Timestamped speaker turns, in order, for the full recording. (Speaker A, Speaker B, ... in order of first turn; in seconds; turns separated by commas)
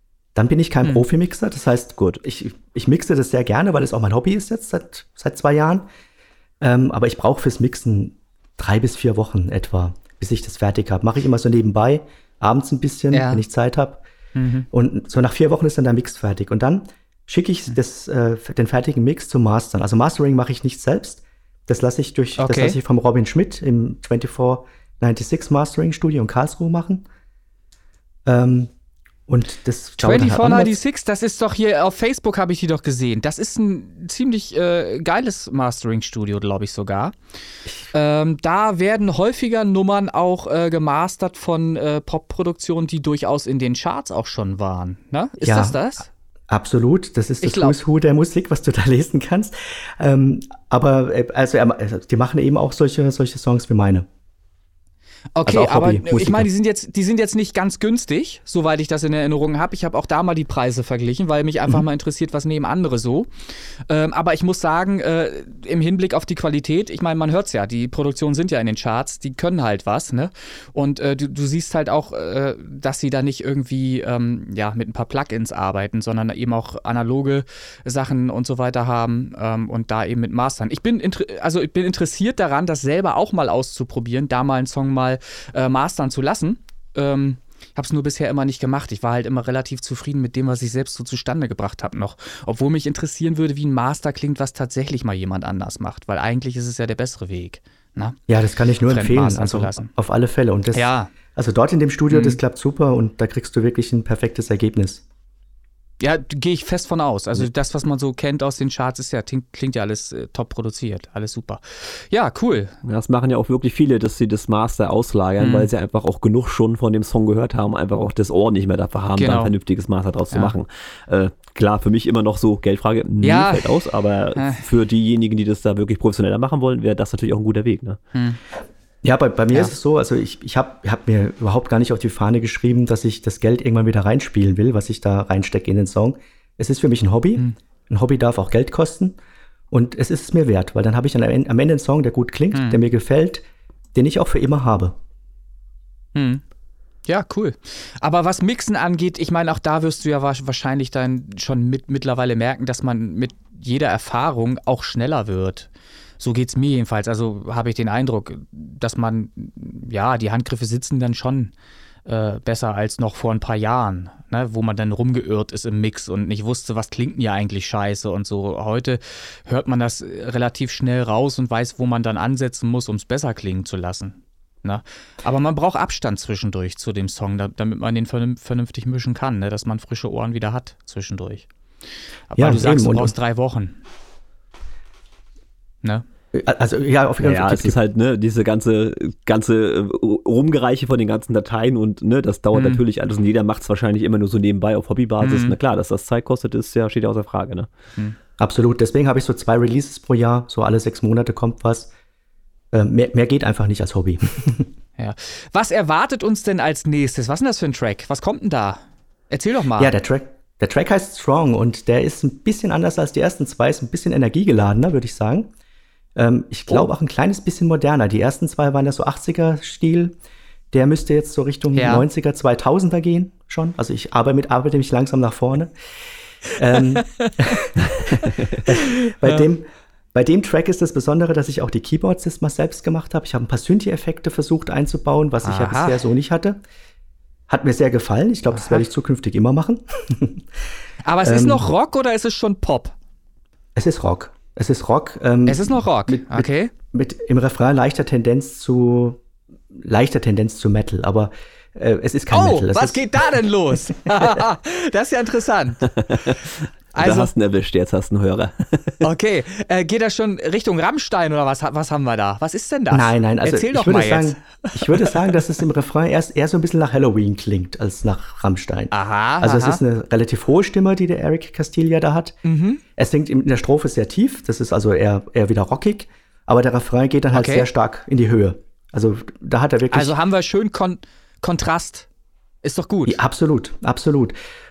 Speaker A: 0.3-5.9, Speaker A: 6.6-14.0, Speaker B: 13.1-13.4, Speaker B: 14.4-14.7, Speaker A: 14.7-27.1, Speaker B: 22.4-22.8, Speaker A: 28.3-28.7, Speaker A: 29.3-30.7, Speaker B: 30.0-37.1, Speaker B: 37.9-46.1, Speaker A: 45.4-45.9, Speaker A: 46.5-54.1, Speaker B: 47.4-47.8, Speaker B: 55.4-63.3, Speaker A: 55.5-56.5, Speaker B: 63.9-98.2, Speaker A: 98.3-105.0, Speaker B: 98.9-99.9, Speaker B: 100.7-101.1, Speaker B: 102.1-102.4, Speaker B: 106.0-112.8, Speaker C: 112.8-128.0, Speaker B: 115.4-115.7, Speaker B: 119.2-119.5, Speaker B: 123.2-123.8, Speaker B: 124.4-124.7, Speaker B: 128.2-128.4, Speaker A: 129.0-139.2, Speaker A: 139.7-143.4, Speaker B: 142.5-142.8, Speaker A: 143.9-144.9, Speaker B: 146.2-146.4, Speaker B: 147.1-161.5, Speaker B: 162.1-181.5, Speaker B: 182.3-183.8, Speaker A: 182.4-183.2, Speaker A: 186.3-187.8, Speaker C: 187.2-197.7, Speaker B: 192.5-192.8, Speaker B: 195.2-195.6, Speaker A: 198.4-201.9, Speaker A: 202.7-204.7, Speaker B: 205.0-209.9, Speaker A: 209.8-215.5, Speaker A: 216.2-220.2, Speaker A: 220.7-225.7, Speaker B: 221.8-222.1, Speaker A: 226.6-236.6, Speaker B: 227.2-227.6, Speaker B: 228.7-229.5, Speaker B: 235.4-236.0, Speaker A: 237.5-240.4, Speaker B: 238.5-238.9, Speaker B: 241.1-242.9, Speaker A: 241.2-241.7, Speaker A: 243.8-249.2, Speaker B: 245.5-246.7, Speaker A: 249.7-253.2, Speaker B: 252.3-255.9, Speaker C: 255.9-259.0, Speaker B: 256.9-257.3, Speaker B: 259.0-264.9, Speaker A: 262.9-272.4, Speaker B: 268.9-269.8, Speaker B: 272.4-272.8, Speaker A: 273.0-280.1, Speaker B: 277.3-277.7, Speaker B: 279.9-282.1, Speaker B: 282.6-283.2, Speaker A: 283.1-284.4